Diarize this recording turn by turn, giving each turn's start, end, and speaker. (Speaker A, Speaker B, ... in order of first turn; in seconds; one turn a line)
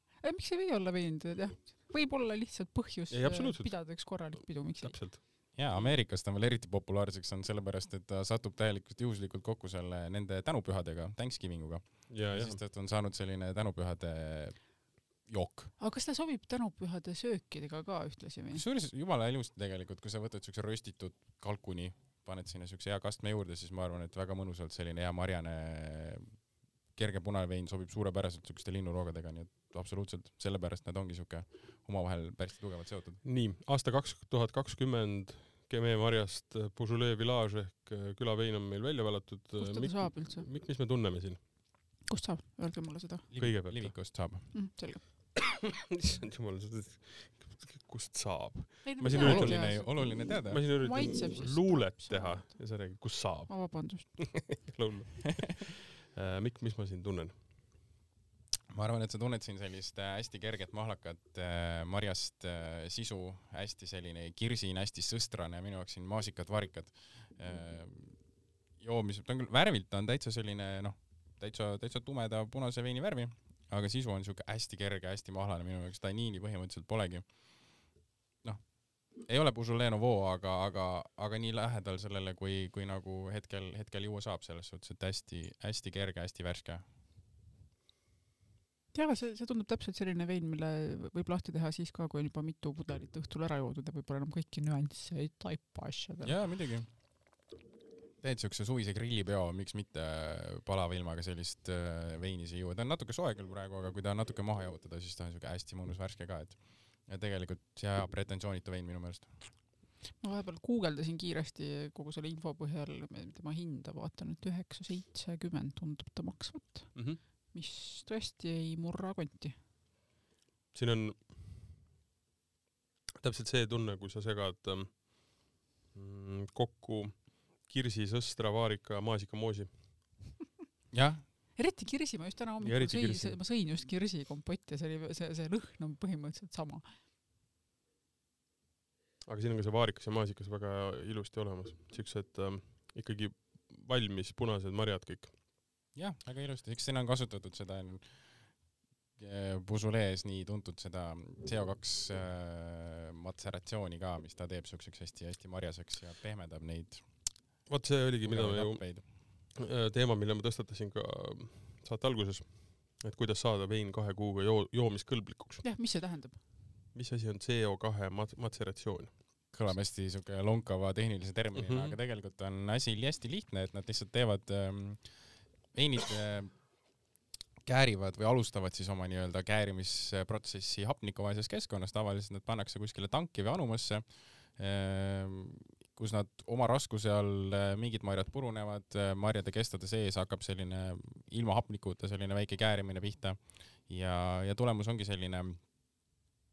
Speaker A: 0.2-5.9
Speaker B: 3.1-5.2
Speaker C: 5.5-15.7
Speaker B: 12.1-12.6
Speaker A: 15.8-18.6
Speaker C: 18.5-33.2
Speaker B: 33.2-41.4
Speaker A: 39.6-40.5
Speaker A: 42.1-43.3
Speaker C: 43.3-44.7
Speaker B: 43.4-44.0
Speaker A: 44.5-45.0
Speaker B: 45.4-57.4
Speaker A: 48.8-54.6
Speaker C: 49.1-50.8
Speaker C: 58.7-86.9
Speaker A: 88.9-96.4
Speaker C: 96.2-97.1
Speaker C: 98.2-109.6
Speaker A: 110.2-119.6
Speaker B: 117.0-117.2
Speaker B: 120.7-121.5
Speaker B: 123.2-130.0
Speaker C: 130.9-131.3
Speaker A: 131.6-137.0
Speaker B: 132.6-133.4
Speaker B: 139.2-145.4
Speaker C: 145.9-148.6
Speaker C: 149.2-157.6
Speaker B: 157.7-165.7
Speaker C: 158.2-159.1
Speaker A: 165.6-166.4
Speaker B: 166.9-169.7
Speaker C: 169.5-177.0
Speaker B: 171.5-172.0
Speaker C: 177.6-196.1